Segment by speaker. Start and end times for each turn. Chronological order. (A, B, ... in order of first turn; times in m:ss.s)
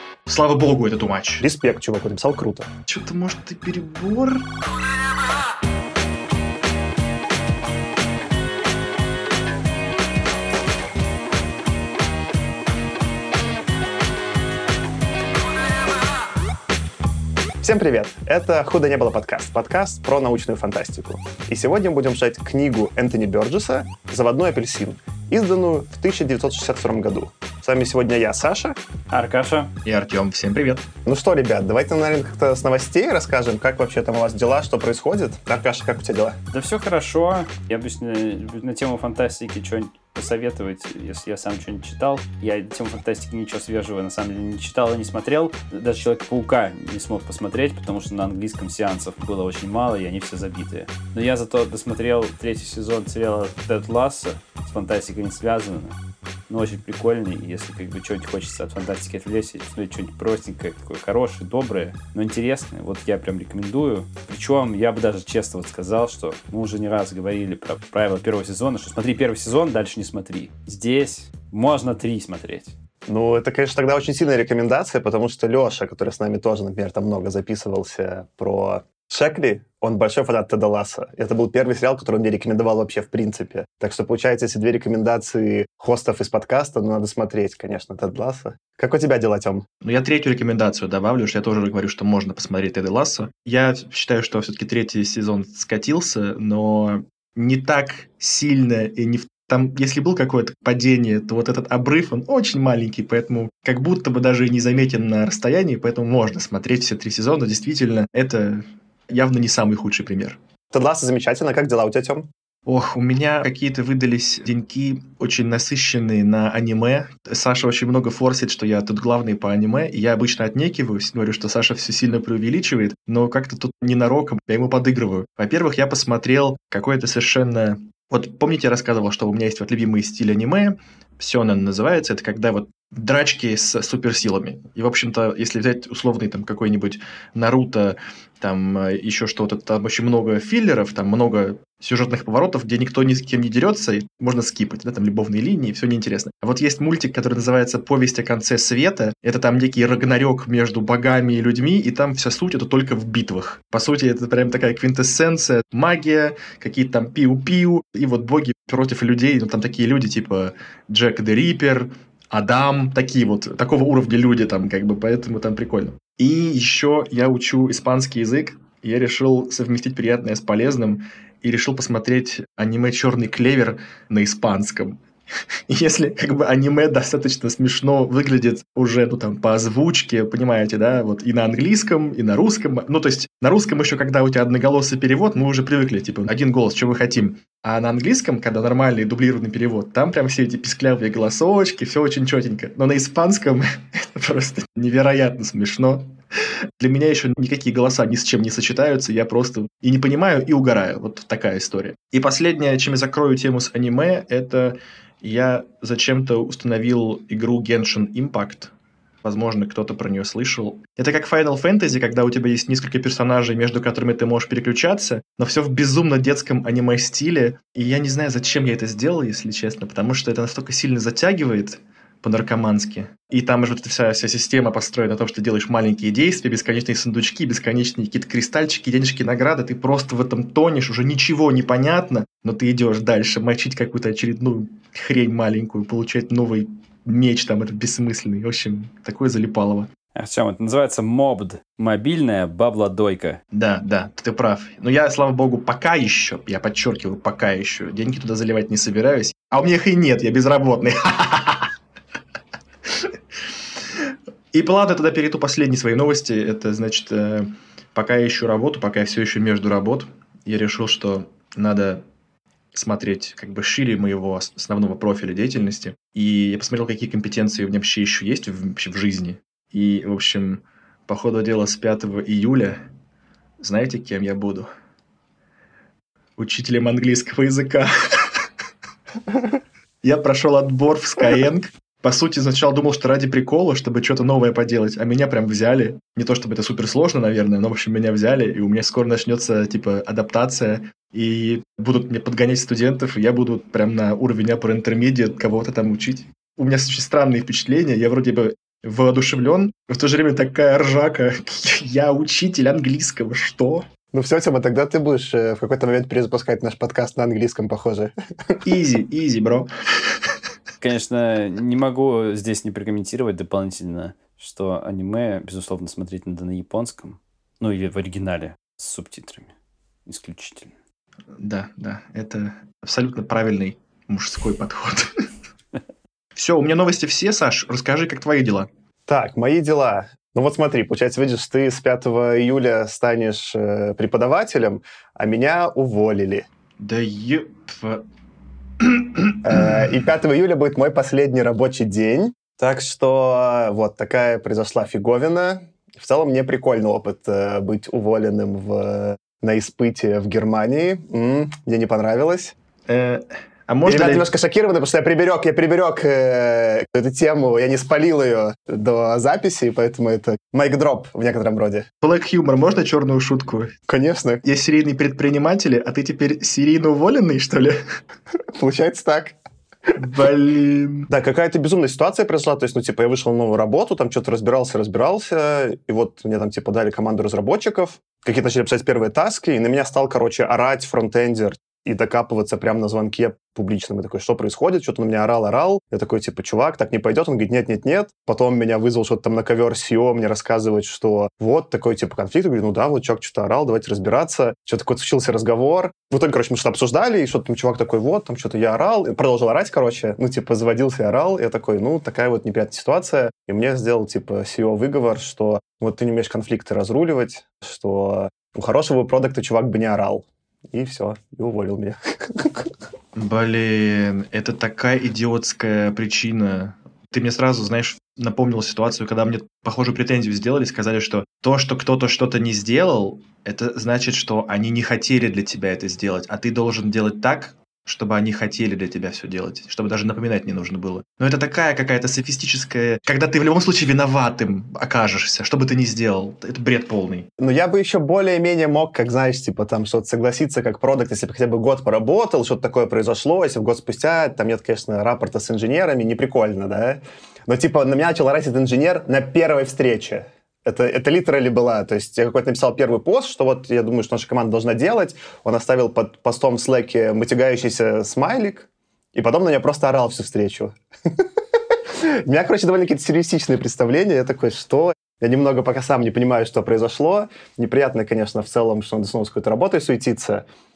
0:00.3-0:01.4 A
0:01.4-0:02.7 B
0:02.9-0:04.5 A
0:17.6-0:28.8 B
0:29.1-0:29.7 C
0:29.8-0:30.9 A
0:31.0-0:36.4 B
0:36.5-0:56.0 C
0:56.5-1:12.7 C
1:13.1-1:29.6 B
1:29.8-1:50.4 A
1:50.7-1:52.3 B
1:52.7-2:55.0 A
2:55.7-3:28.7 A
3:29.2-3:59.9 A
4:00.2-4:03.4 C
4:03.5-4:11.7 A
4:14.5-4:22.0 A
4:22.7-4:32.8 A
4:33.6-4:34.7 A
4:36.4-4:38.4 A
4:40.0-5:03.9 A
5:04.1-5:08.5 B
5:08.6-5:10.2 A
5:10.8-5:19.5 C
5:20.1-5:20.7 C
5:21.4-5:25.3 A
5:26.4-5:28.7 A
5:29.1-5:36.4 B
5:36.8-5:38.0 A
5:38.8-5:39.3 A
5:39.4-5:52.5 B
5:52.9-5:54.3 A
5:53.8-6:01.9 B
6:02.0-6:03.8 A
6:03.9-6:04.4 B
6:04.4-6:07.8 A
6:08.5-6:09.4 B
6:10.0-6:11.1 A
6:11.1-6:52.7 B
6:53.1-7:17.3 A
7:17.4-7:40.7 B
7:42.0-7:50.4 B